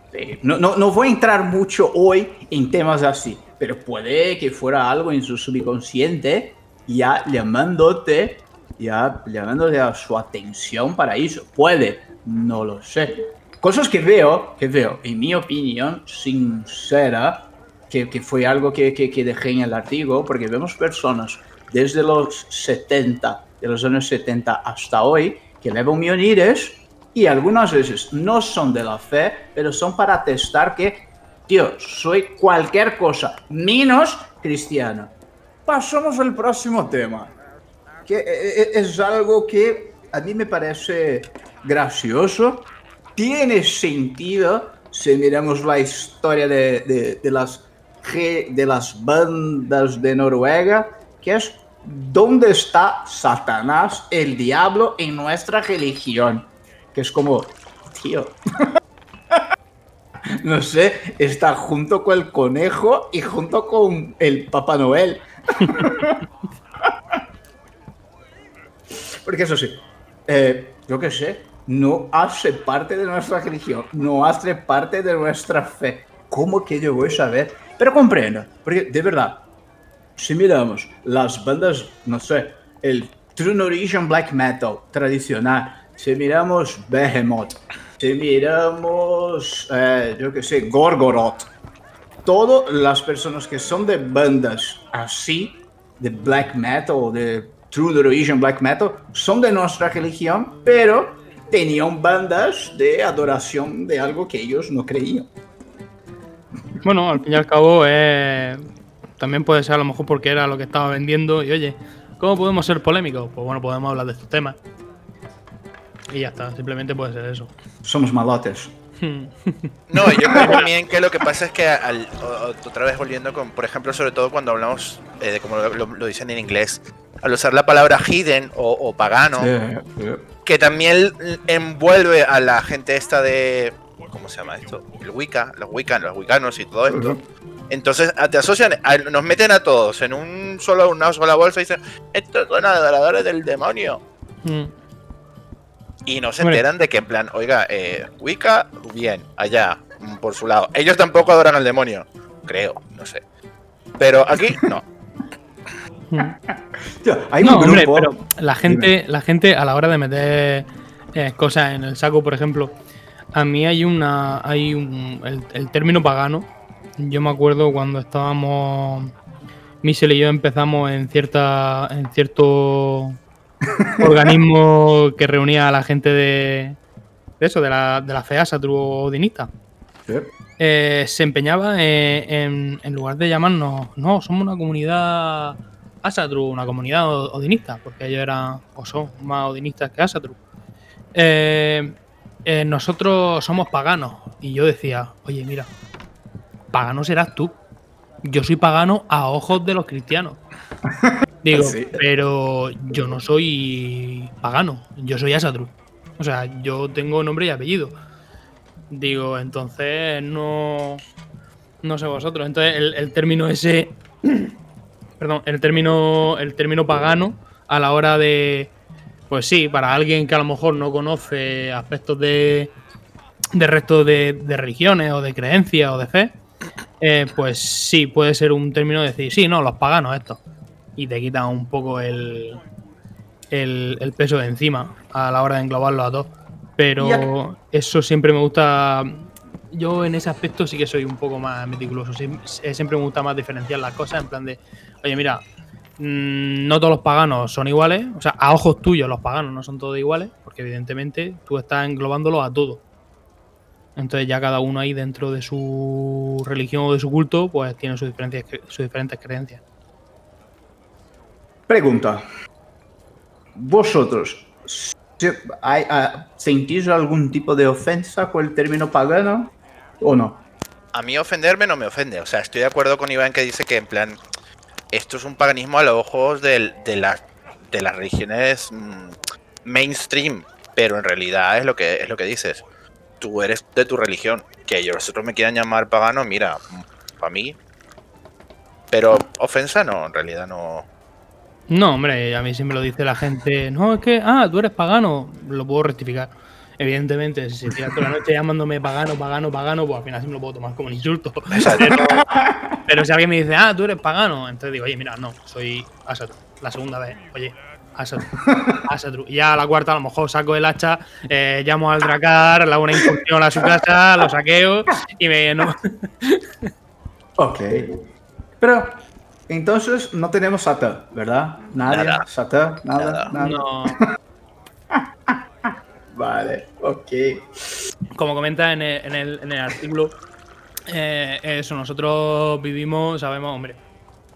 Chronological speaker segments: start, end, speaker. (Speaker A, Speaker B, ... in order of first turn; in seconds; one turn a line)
Speaker A: 0.1-35.1
Speaker A: 35.6-37.3
Speaker A: 38.0-58.4
Speaker A: 60.4-66.2
Speaker B: 65.6-65.9
Speaker A: 69.2-79.5
Speaker A: 80.2-91.5
Speaker A: 92.2-105.3
Speaker B: 106.8-108.6
Speaker B: 109.2-114.6
Speaker B: 116.1-117.5
Speaker A: 117.8-118.7
Speaker B: 119.0-120.6
Speaker C: 119.9-129.5
Speaker A: 120.0-120.6
Speaker A: 129.3-130.3
Speaker C: 130.4-137.2
Speaker A: 136.9-137.2
Speaker C: 137.7-144.0
Speaker B: 144.4-144.7
Speaker C: 146.0-153.2
Speaker C: 154.0-154.8
Speaker B: 156.1-156.3
Speaker A: 157.0-158.9
Speaker B: 157.4-162.8
Speaker B: 163.3-169.1
Speaker B: 169.8-173.2
Speaker A: 173.7-174.2
Speaker B: 174.0-176.8
Speaker B: 177.4-179.5
Speaker B: 180.6-190.4
Speaker B: 191.1-195.7
Speaker B: 196.7-197.6
Speaker B: 198.2-200.4
Speaker A: 201.0-202.0
Speaker B: 201.4-207.9
Speaker B: 208.9-211.0
Speaker B: 211.8-214.5
Speaker B: 215.2-218.7
Speaker B: 219.3-222.7
Speaker B: 223.5-226.4
Speaker B: 227.0-230.4
Speaker B: 230.9-232.6
Speaker B: 233.5-245.4
Speaker A: 237.0-237.3
Speaker B: 246.0-252.8
Speaker B: 253.9-259.6
Speaker A: 261.7-262.2
Speaker A: 263.6-270.4
Speaker C: 270.9-274.2
Speaker C: 274.9-282.6
Speaker C: 283.2-287.6
Speaker C: 288.9-290.9
Speaker B: 291.7-302.3
Speaker C: 301.6-301.8
Speaker A: 301.6-302.8
Speaker B: 302.9-316.5
Speaker A: 308.5-308.8
Speaker A: 317.4-317.9
Speaker A: 318.6-324.0
Speaker C: 321.9-322.3
Speaker C: 323.0-323.3
Speaker B: 323.3-324.0
Speaker A: 324.9-325.4
Speaker A: 326.1-327.5
Speaker B: 328.1-330.2
Speaker B: 330.9-333.8